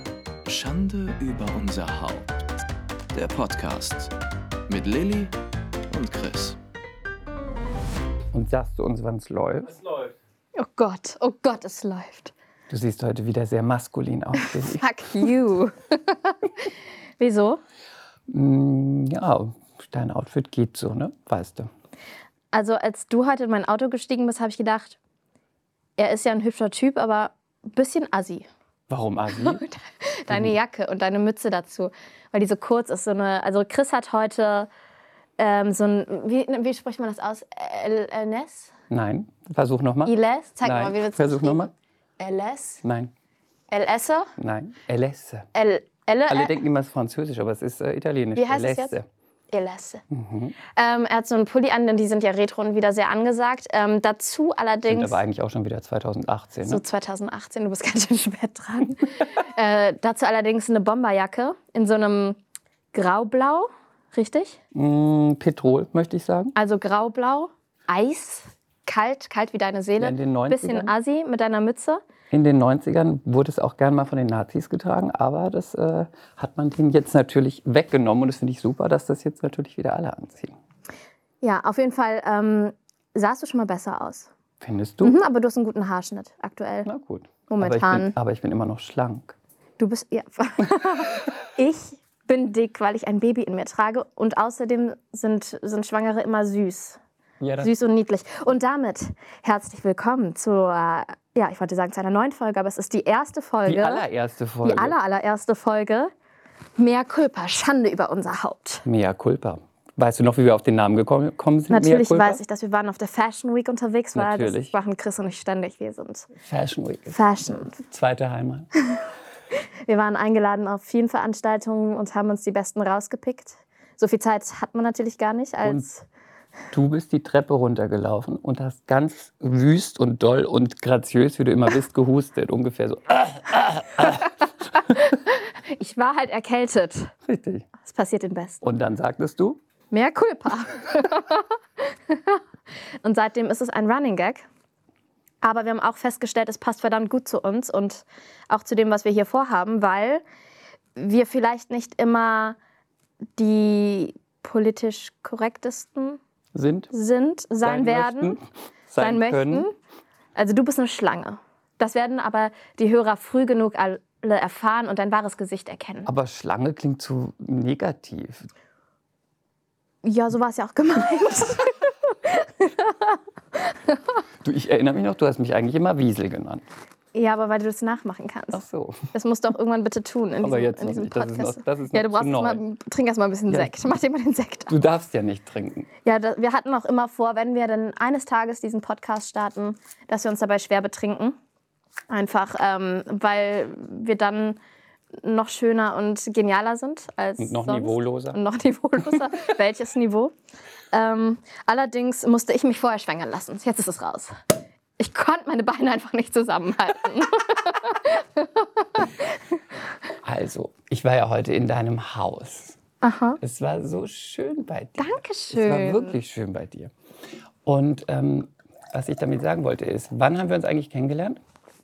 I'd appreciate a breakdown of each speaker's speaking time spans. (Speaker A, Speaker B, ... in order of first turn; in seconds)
Speaker A: 0.4-2.3, 3.1-4.1, 4.7-5.3, 5.9-6.6
Speaker B: 8.3-9.8, 12.7-14.8, 18.3-21.7, 28.9-29.6, 30.3-30.5, 38.9-41.7, 42.8-43.1, 44.4-45.5, 46.3-49.0, 50.1-50.5, 54.9-56.8, 64.7-66.5, 70.0-70.9, 72.3-80.5, 84.6-85.2, 86.8-89.3, 97.4-97.7, 103.6-105.0, 108.8-112.4, 114.1-114.7, 116.3-118.7, 126.7-134.9, 137.2-137.7, 138.6-139.6, 156.5-156.9, 157.6-159.7, 166.1-168.5, 174.4-176.6, 178.5-179.1, 180.4-182.6, 184.7-185.9, 197.4-198.4, 210.2-212.8, 213.4-216.9, 217.6-221.4
Speaker C: 10.6-12.3, 14.3-17.6, 22.5-25.0, 26.0-28.5, 29.3-34.7, 35.4-38.7, 40.0-42.8, 43.7-44.3, 45.5-46.5, 48.4-49.0, 49.5-50.0, 50.7-55.2, 56.6-62.4, 62.9-64.6, 66.5-72.0, 81.4-84.3, 85.0-86.9, 87.5-88.1, 89.8-97.0, 97.6-104.0, 104.6-106.1, 106.8-108.8, 111.7-116.3, 117.1-117.8, 119.9-126.0, 134.8-137.1, 137.8-138.6, 139.9-142.4, 143.0-144.4, 145.4-150.2, 150.9-152.6, 153.4-156.2, 156.9-158.4, 159.0-159.7, 160.3-166.1, 170.0-174.0, 177.1-184.7, 186.0-191.4, 192.1-194.6, 195.2-200.3, 200.9-204.3, 205.0-209.6, 213.0-213.4, 215.0-216.2